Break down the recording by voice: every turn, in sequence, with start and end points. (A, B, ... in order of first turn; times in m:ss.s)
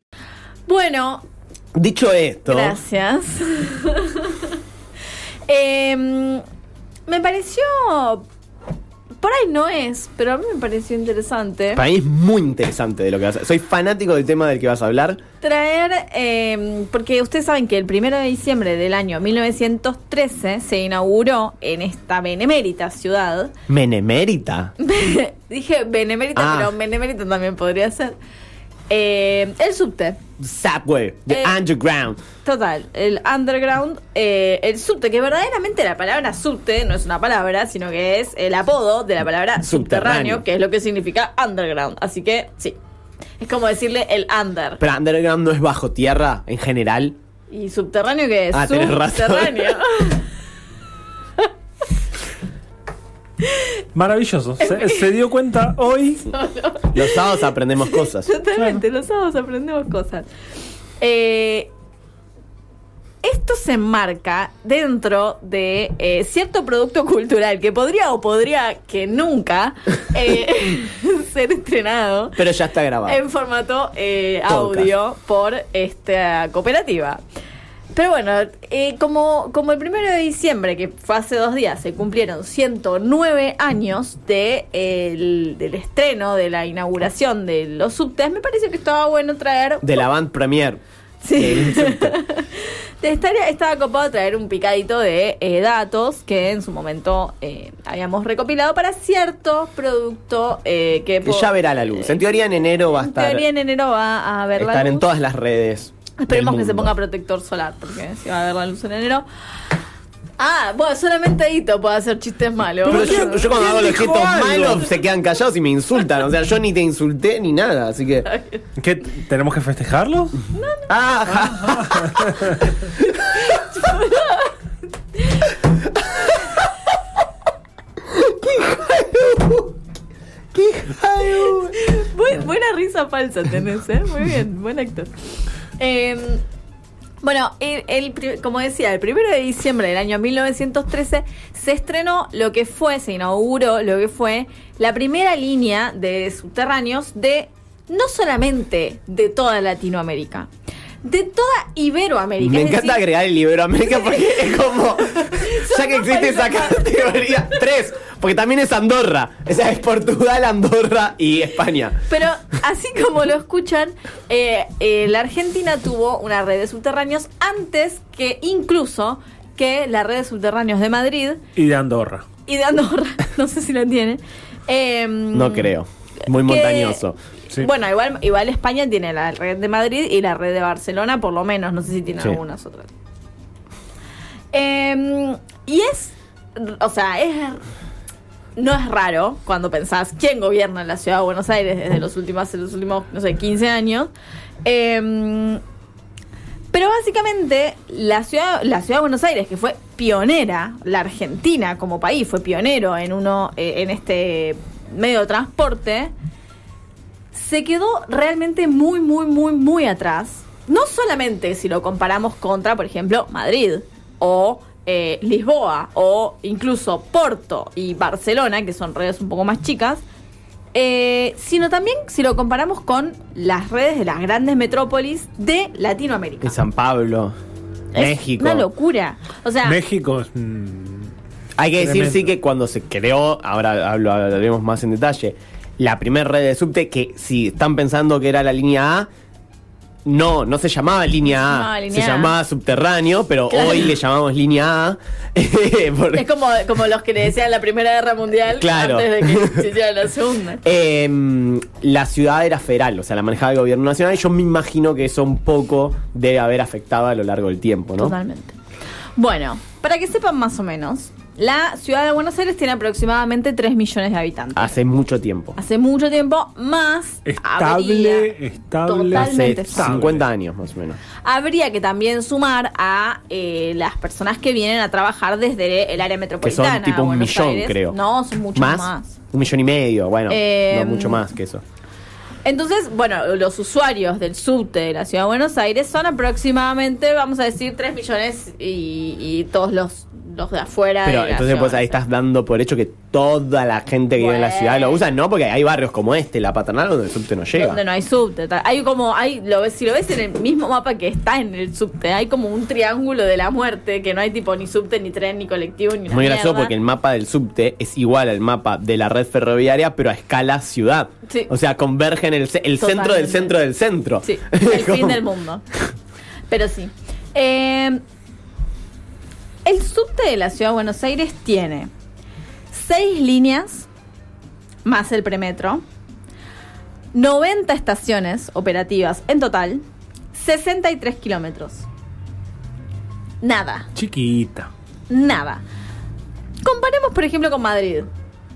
0:00.7-0:01.2 A
0:01.7-0:02.8 B
0:02.4-0:04.6 A
0:05.5-0:06.4 A
0:07.1-0:08.2 A
0:09.2-0:11.8 A
0:11.7-0:15.2 B
0:15.4-0:23.5 A
0:23.7-0:24.7 B
0:24.8-0:28.2 A
0:26.4-0:26.7 B
0:28.9-0:30.2 A
0:30.4-0:32.2 B
0:31.3-0:31.5 A
0:32.4-0:42.8 A
0:39.6-0:40.4 B
0:43.4-0:44.8 A
0:44.8-0:47.2 B
0:47.5-0:50.2 A
0:48.5-0:49.8 B
0:53.9-0:56.3 C
0:54.6-0:55.1 A
0:56.3-0:57.3 A
0:56.9-0:58.3 B
0:57.8-1:00.3 A
0:58.6-0:58.8 C
1:01.0-1:01.7 A
1:03.2-1:12.4 A
1:12.4-1:13.2 B
1:13.0-1:17.2 A
1:14.5-1:14.9 B
1:17.9-1:30.0 A
1:29.8-1:30.8 B
1:31.2-1:42.2 A
1:31.3-1:32.2 B
1:41.2-1:43.4 B
1:42.9-1:45.1 A
1:44.6-1:46.9 B
1:46.2-1:49.2 A
1:50.4-1:53.7 A
1:52.8-1:54.9 C
1:52.9-1:58.3 B
1:58.3-1:58.6 A
1:58.8-2:00.5 C
2:00.5-2:00.9 A
2:00.9-2:02.5 B
2:01.3-2:02.6 C
2:03.0-2:04.5 A
2:05.2-2:05.5 A
2:08.2-2:09.7 B
2:10.5-2:11.8 B
2:11.3-2:15.1 A
2:15.8-2:16.4 A
2:17.2-2:30.5 A
2:31.0-2:33.0 A
2:32.4-2:42.0 B
2:34.1-2:37.4 A
2:42.1-2:51.4 A
2:51.6-2:52.3 C
2:52.4-2:55.7 A
2:55.3-2:57.2 B
2:56.3-3:02.9 A
3:04.5-3:07.6 A
3:08.6-3:14.1 A
3:14.6-3:15.6 A
3:16.7-3:26.1 A
3:27.3-3:40.0 A
3:40.7-3:46.6 A
3:46.4-3:47.3 B
3:47.9-3:49.8 A
3:48.0-3:48.7 B
3:49.6-3:51.1 C
3:51.6-3:59.1 B
3:51.8-3:52.3 C
4:00.0-4:06.2 B
4:01.3-4:02.3 A
4:03.5-4:03.9 A
4:06.1-4:10.6 A
4:08.5-4:09.7 B
4:10.6-4:18.2 B
4:18.0-4:18.5 A
4:19.2-4:24.7 A
4:24.6-4:25.6 B
4:25.6-4:28.3 A
4:27.2-4:30.2 C
4:28.8-4:29.9 A
4:29.1-4:31.0 B
4:31.2-4:39.2 A
4:36.4-4:38.0 B
4:38.5-4:41.6 B
4:40.3-4:41.2 A
4:42.4-4:51.9 A
4:51.0-4:57.8 B
4:54.2-4:55.0 A
4:57.5-5:06.7 A
5:06.1-5:15.2 B
5:12.8-5:13.5 A
5:14.2-5:15.6 A
5:16.5-5:18.0 A
5:19.6-5:21.9 A
5:22.7-5:23.9 A
5:24.8-5:25.8 A
5:27.1-5:29.8 A
5:30.3-5:31.8 A
5:33.4-5:33.9 A
5:33.9-5:34.7 C
5:35.1-5:35.6 A
5:36.6-5:38.1 A